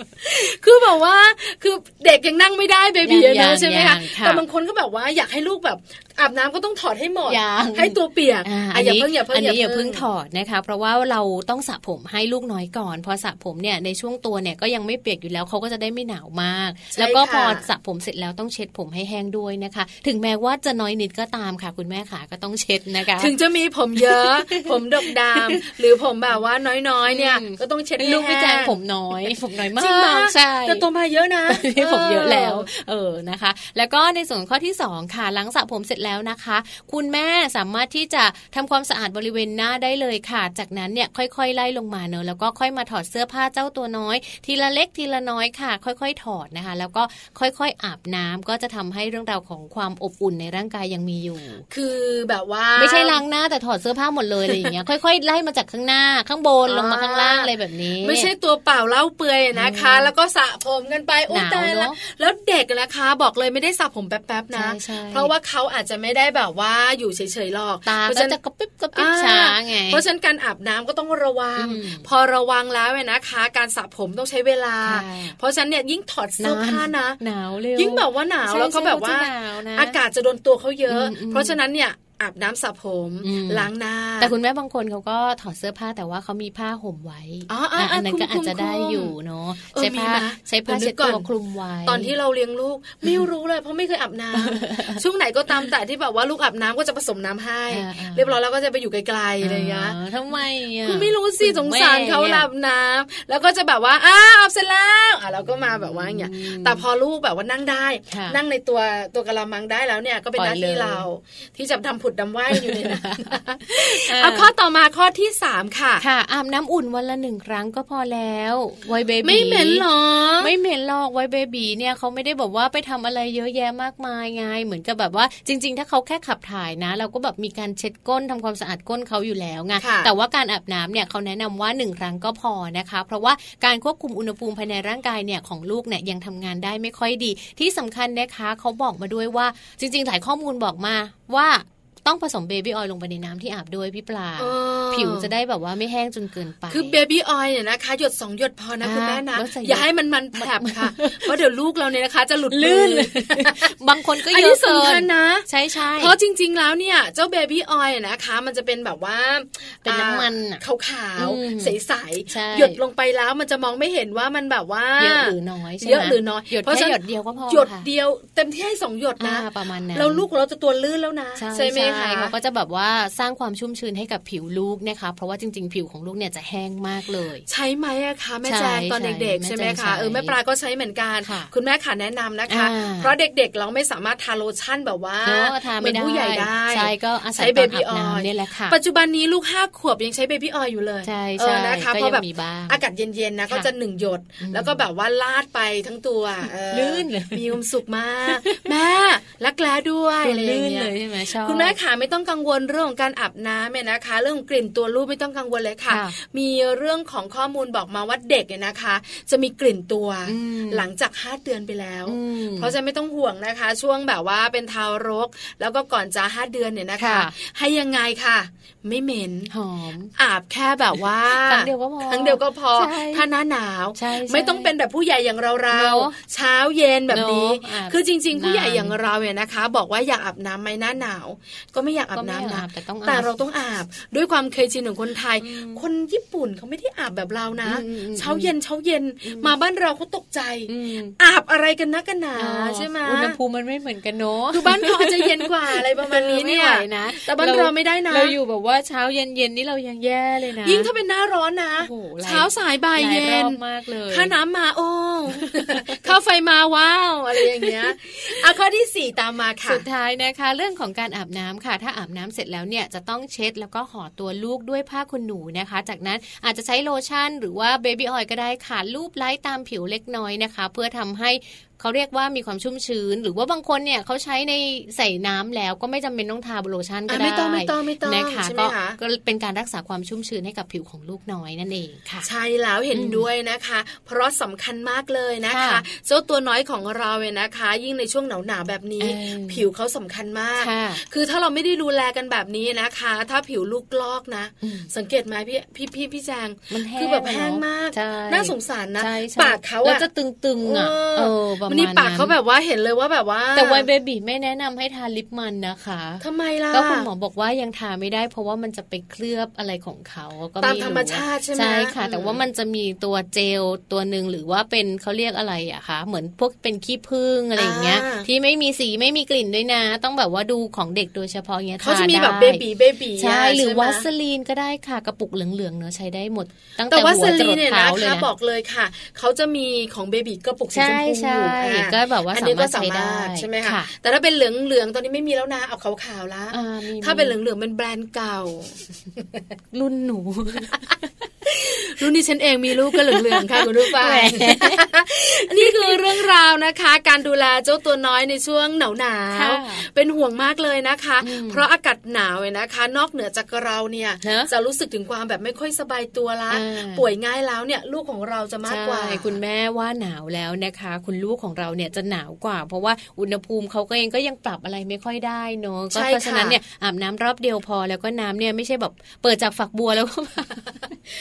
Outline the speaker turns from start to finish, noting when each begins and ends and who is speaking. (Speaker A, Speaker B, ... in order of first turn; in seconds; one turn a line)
Speaker A: 0.2-10.0
Speaker B: 3.0-4.4
Speaker B: 7.3-23.3
Speaker A: 16.9-17.6
Speaker A: 23.2-32.7
Speaker B: 24.0-25.6
Speaker B: 27.1-30.8
Speaker B: 31.5-51.7
Speaker A: 51.7-53.2
Speaker B: 52.8-58.3
Speaker A: 56.7-57.5
Speaker A: 58.0-68.4
Speaker B: 59.6-60.1
Speaker B: 61.3-62.0
Speaker B: 64.5-65.3
Speaker B: 67.8-70.0
Speaker A: 68.9-77.2
Speaker B: 71.6-72.1
Speaker B: 74.8-75.4
Speaker B: 76.4-80.0
Speaker A: 77.8-84.3
Speaker B: 80.9-81.5
Speaker B: 83.2-83.7
Speaker B: 84.2-92.1
Speaker A: 87.5-89.1
Speaker A: 89.7-91.3
Speaker A: 91.9-100.0
Speaker B: 94.4-95.0
Speaker B: 97.7-98.3
Speaker B: 99.4-102.5
Speaker A: 100.8-116.0
Speaker B: 105.8-106.8
Speaker B: 108.1-108.4
Speaker B: 110.4-111.0
Speaker B: 112.5-114.5
Speaker B: 116.0-119.8
Speaker A: 119.2-120.5
Speaker B: 120.4-147.0
Speaker A: 129.8-130.1
Speaker A: 144.4-145.3
Speaker A: 146.7-153.7
Speaker B: 148.8-151.3
Speaker B: 152.5-156.2
Speaker A: 154.3-172.3
Speaker B: 159.8-160.6
Speaker B: 161.2-161.8
Speaker B: 162.3-162.8
Speaker B: 165.0-167.9
Speaker B: 169.2-170.2
Speaker B: 171.4-177.4
Speaker A: 177.5-219.5
Speaker B: 178.5-180.3
Speaker B: 181.2-181.5
Speaker B: 182.5-183.1
Speaker B: 185.2-188.8
Speaker B: 191.0-192.8
Speaker B: 194.4-194.8
Speaker B: 196.7-197.6
Speaker B: 198.3-198.6
Speaker B: 200.2-201.8
Speaker B: 205.9-206.2
Speaker B: 210.3-210.9
Speaker B: 212.1-212.7
Speaker B: 217.0-217.3
Speaker B: 219.5-220.1
Speaker A: 220.2-243.4
Speaker B: 221.4-223.2
Speaker B: 223.9-224.7
Speaker B: 225.7-226.1
Speaker B: 227.1-229.0
Speaker B: 232.1-233.4
Speaker B: 235.4-235.8
Speaker B: 237.7-238.5
Speaker B: 239.2-239.5
Speaker B: 240.7-241.2
Speaker B: 242.4-250.9
Speaker A: 244.5-248.4
Speaker A: 250.6-259.8
Speaker B: 251.8-254.3
Speaker B: 255.4-256.0
Speaker B: 257.4-258.3
Speaker B: 259.7-282.3
Speaker A: 277.1-279.0
Speaker A: 282.2-300.1
Speaker B: 282.9-283.3
Speaker B: 285.5-285.8
Speaker B: 289.0-289.7
Speaker B: 290.6-291.0
Speaker B: 294.6-294.9
Speaker B: 296.7-302.3
Speaker A: 300.6-303.9
Speaker B: 303.6-322.6
Speaker A: 306.2-307.1
Speaker A: 310.6-312.4
Speaker A: 317.6-318.3
Speaker A: 321.8-324.1
Speaker B: 323.2-328.3
Speaker A: 326.9-338.8
Speaker B: 330.7-333.9
Speaker B: 336.5-337.4
Speaker B: 339.7-341.1
Speaker A: 341.5-359.4
Speaker B: 342.9-344.9
Speaker B: 345.5-346.0
Speaker B: 349.3-349.8
Speaker B: 351.2-351.6
Speaker B: 354.2-354.5
Speaker B: 356.5-357.1
Speaker B: 358.7-370.8
Speaker A: 365.9-366.6